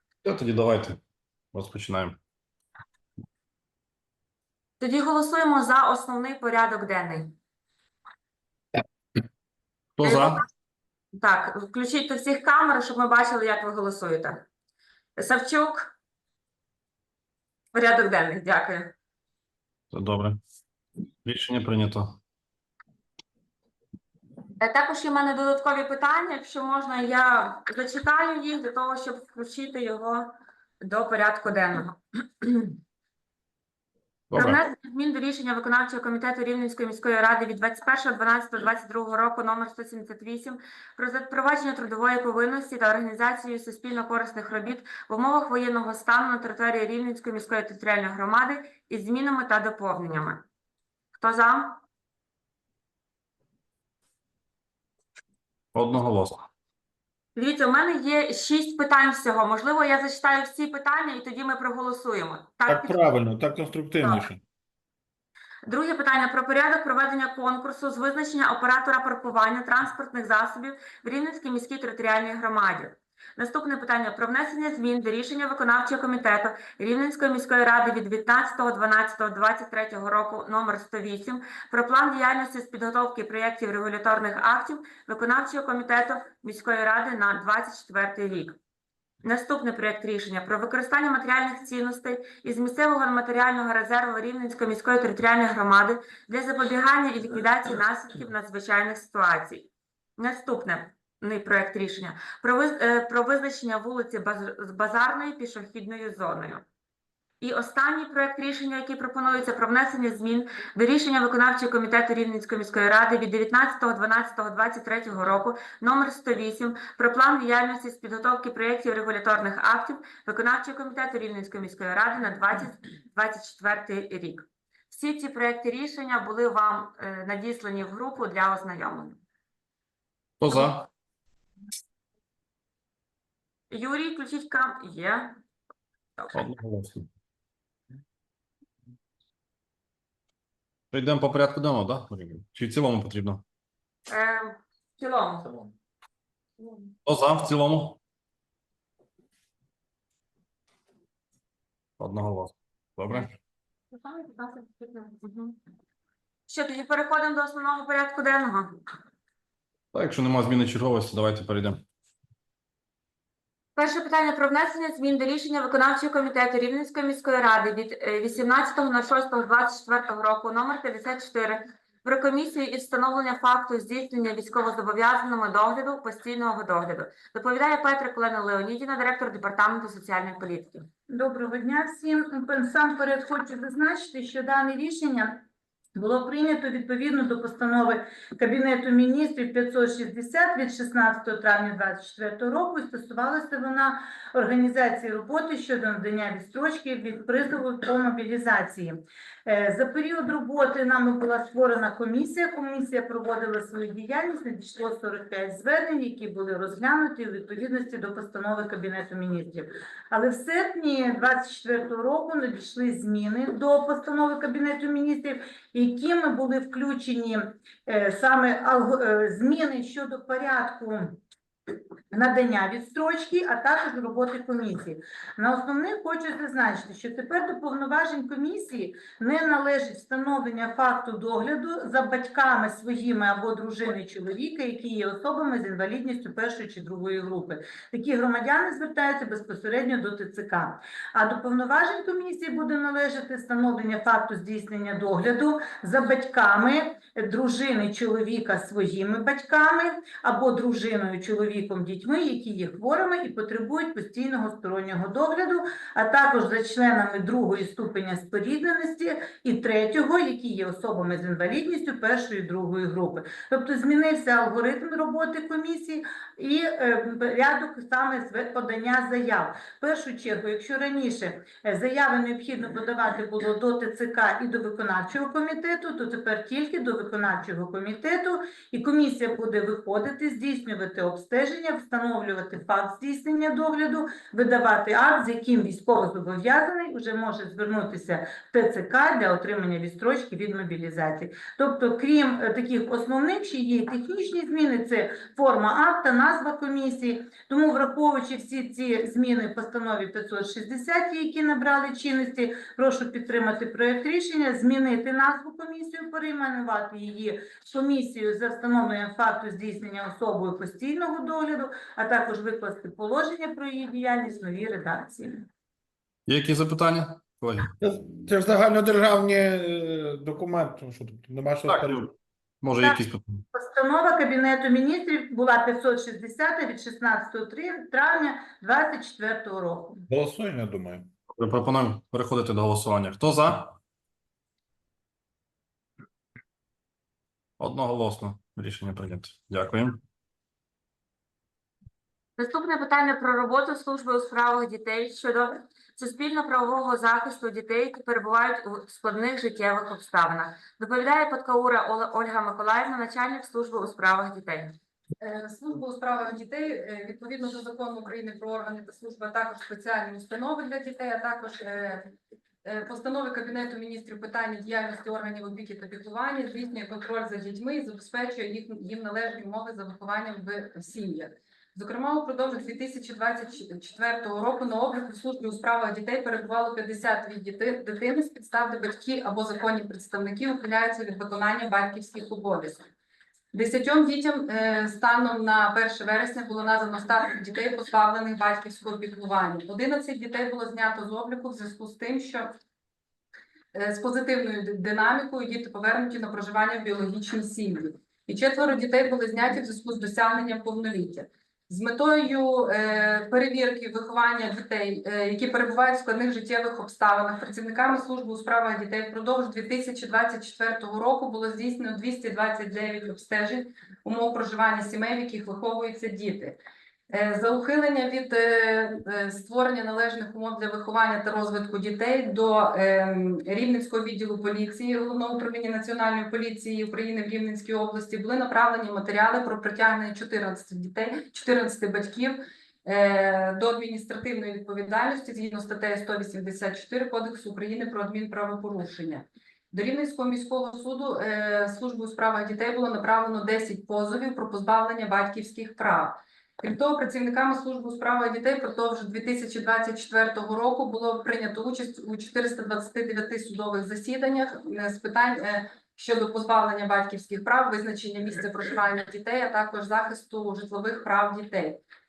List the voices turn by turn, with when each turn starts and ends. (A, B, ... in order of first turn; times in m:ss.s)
0:00.2-0:01.0 A
0:01.5-0:02.2 A
0:04.8-0:07.3 B
0:10.0-0:10.4 A
0:10.0-0:10.4 B
0:11.1-0:14.4 B
0:15.2-0:15.9 B
0:17.7-0:18.9 B
0:19.9-0:20.4 A
0:21.2-0:22.2 A
0:24.6-0:32.8 B
0:34.3-0:34.6 A
0:34.3-0:50.4 B
0:51.2-0:51.8 B
0:55.7-0:56.4 A
0:57.3-1:03.1 B
1:02.6-1:04.4 C
1:05.6-1:28.6 B
1:29.2-1:46.6 B
1:47.4-2:09.2 B
2:10.4-2:10.9 A
2:13.7-2:15.4 B
2:16.3-2:17.1 A
2:20.9-2:23.4 A
2:24.1-2:25.7 B
2:26.6-2:26.9 B
2:27.0-2:28.0 A
2:32.0-2:33.3 A
2:33.9-2:35.6 B
2:36.5-2:38.8 B
2:39.9-2:41.8 A
2:43.8-3:00.9 B
3:01.1-3:41.2 D
3:42.1-5:15.5 D
5:16.3-5:17.7 A
5:17.8-5:22.1 C
5:21.7-5:22.1 A
5:22.6-5:23.4 A
5:23.5-5:30.0 D
5:30.1-5:31.1 C
5:31.3-5:33.8 A
5:37.6-5:40.0 A
5:42.4-5:54.8 B
5:55.2-6:02.1 E
6:02.6-6:22.8 E
6:23.5-6:32.5 E
6:33.7-6:56.6 E
6:57.1-7:41.8 E